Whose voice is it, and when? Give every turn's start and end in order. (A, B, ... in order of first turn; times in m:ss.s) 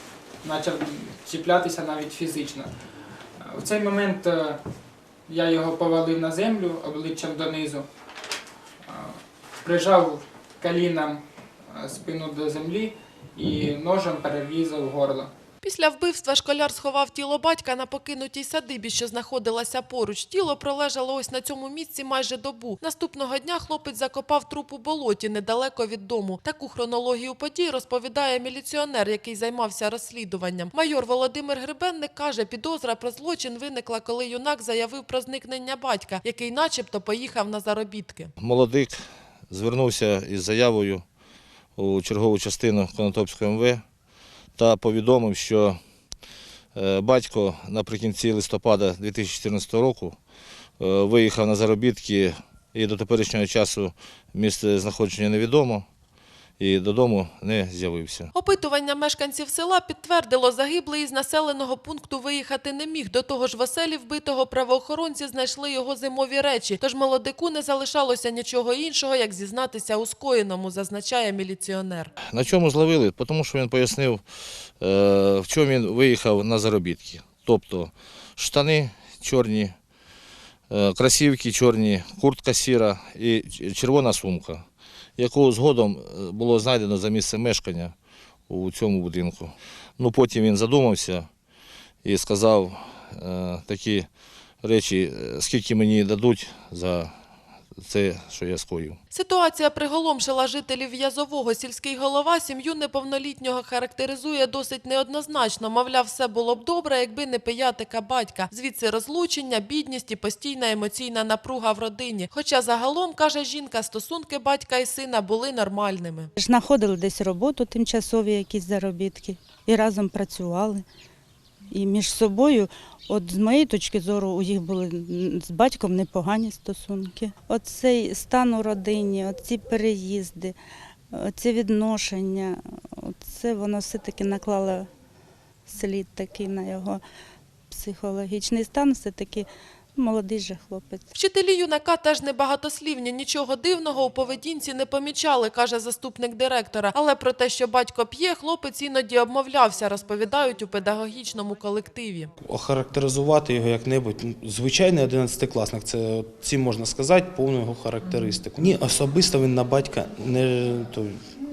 0:00.4-0:04.6 A
0:05.2-0:07.9 A
0:08.8-0:15.3 A
0:15.6-0:38.3 B
0:38.4-0:41.0 C
0:41.8-0:43.8 C
0:44.6-0:45.8 C
0:46.7-0:50.2 C
0:50.8-0:55.9 C
0:56.6-0:58.3 C
0:58.3-1:12.1 B
1:12.3-1:14.2 C
1:14.8-1:19.7 C
1:20.7-1:24.6 C
1:25.2-1:27.9 C
1:28.5-1:31.3 C
1:32.0-1:34.1 C
1:34.6-1:37.1 C
1:37.8-1:39.0 C
1:39.1-1:56.3 B
1:56.4-2:00.8 D
2:01.7-2:10.6 D
2:11.1-2:14.9 D
2:15.7-2:17.0 D
2:17.7-2:21.0 D
2:21.1-2:32.3 B
2:32.4-2:41.2 E